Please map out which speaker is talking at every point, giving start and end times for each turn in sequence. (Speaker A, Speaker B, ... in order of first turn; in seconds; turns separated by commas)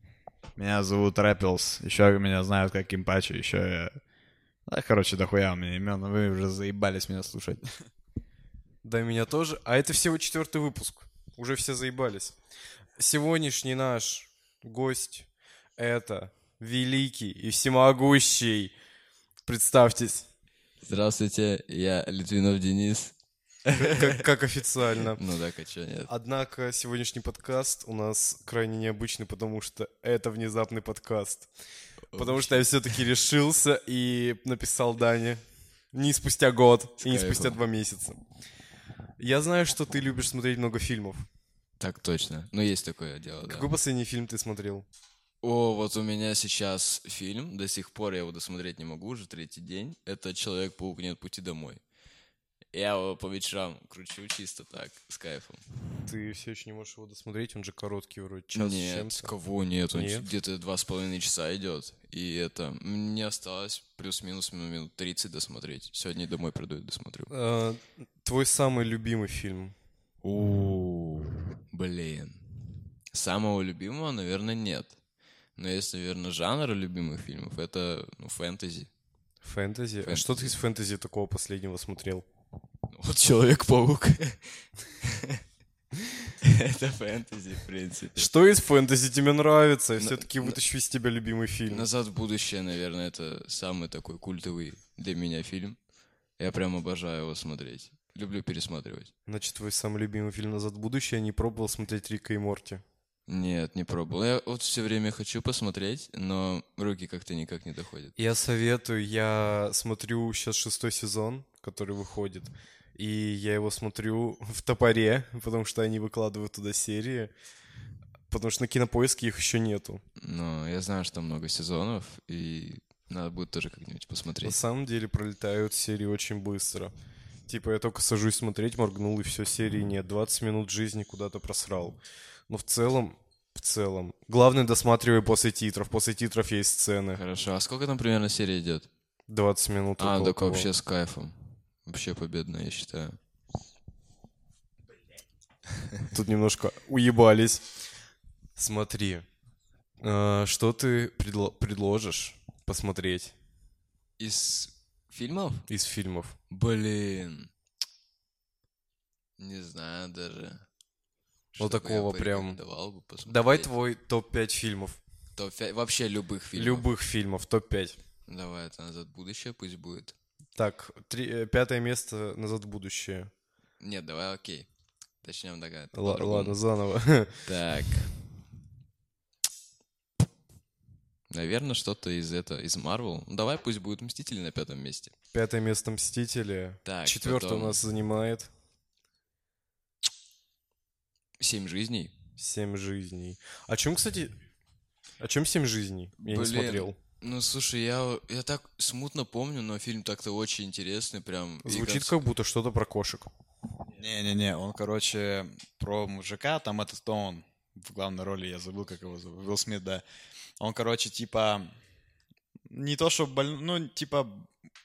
Speaker A: 0.6-4.0, Speaker A: 4.7-7.7, Speaker B: 8.8-12.4, Speaker B: 13.0-18.8, Speaker B: 19.4-20.3, Speaker C: 20.8-24.2, Speaker B: 23.8-25.2, Speaker C: 25.1-26.1, Speaker B: 26.1-31.5, Speaker C: 32.1-33.0, Speaker B: 32.1-38.2, Speaker C: 37.0-37.6, Speaker B: 39.2-41.3, Speaker C: 41.8-43.7, Speaker B: 43.5-44.9, Speaker C: 45.4-51.8, Speaker C: 52.7-55.6, Speaker B: 56.0-59.3, Speaker C: 58.5-67.3, Speaker B: 59.9-60.3, Speaker B: 67.3-69.8, Speaker C: 70.2-72.5, Speaker C: 73.1-75.0, Speaker C: 75.6-78.9, Speaker B: 79.4-82.2, Speaker C: 80.0-80.5, Speaker C: 82.9-85.4, Speaker C: 86.4-88.3, Speaker B: 88.2-91.9, Speaker C: 90.0-90.6, Speaker C: 91.7-95.8, Speaker C: 96.4-99.1, Speaker B: 99.3-102.8, Speaker C: 103.3-108.2, Speaker B: 108.2-117.3, Speaker B: 118.3-120.0, Speaker C: 120.2-124.6, Speaker B: 124.4-126.9, Speaker B: 127.5-137.2, Speaker C: 137.1-138.9, Speaker B: 139.3-140.7, Speaker C: 140.0-143.2, Speaker B: 146.1-147.7, Speaker B: 148.6-149.3, Speaker B: 150.0-153.3, Speaker C: 154.2-155.7, Speaker B: 155.7-156.4, Speaker C: 156.5-157.5, Speaker C: 159.4-160.7, Speaker C: 161.5-163.7, Speaker B: 161.6-162.6, Speaker B: 163.3-165.0, Speaker C: 165.4-166.9, Speaker B: 166.5-168.0, Speaker C: 168.3-170.1, Speaker B: 170.6-173.3, Speaker C: 173.8-174.7, Speaker C: 175.2-176.6, Speaker B: 175.9-177.5, Speaker C: 177.5-178.2, Speaker C: 181.3-185.1, Speaker B: 185.3-188.5, Speaker C: 186.9-187.8, Speaker C: 191.4-192.1, Speaker B: 192.4-194.4, Speaker B: 195.2-197.0, Speaker C: 196.2-202.2, Speaker B: 201.7-203.3, Speaker A: 203.9-210.0, Speaker A: 210.6-211.8, Speaker A: 212.7-214.5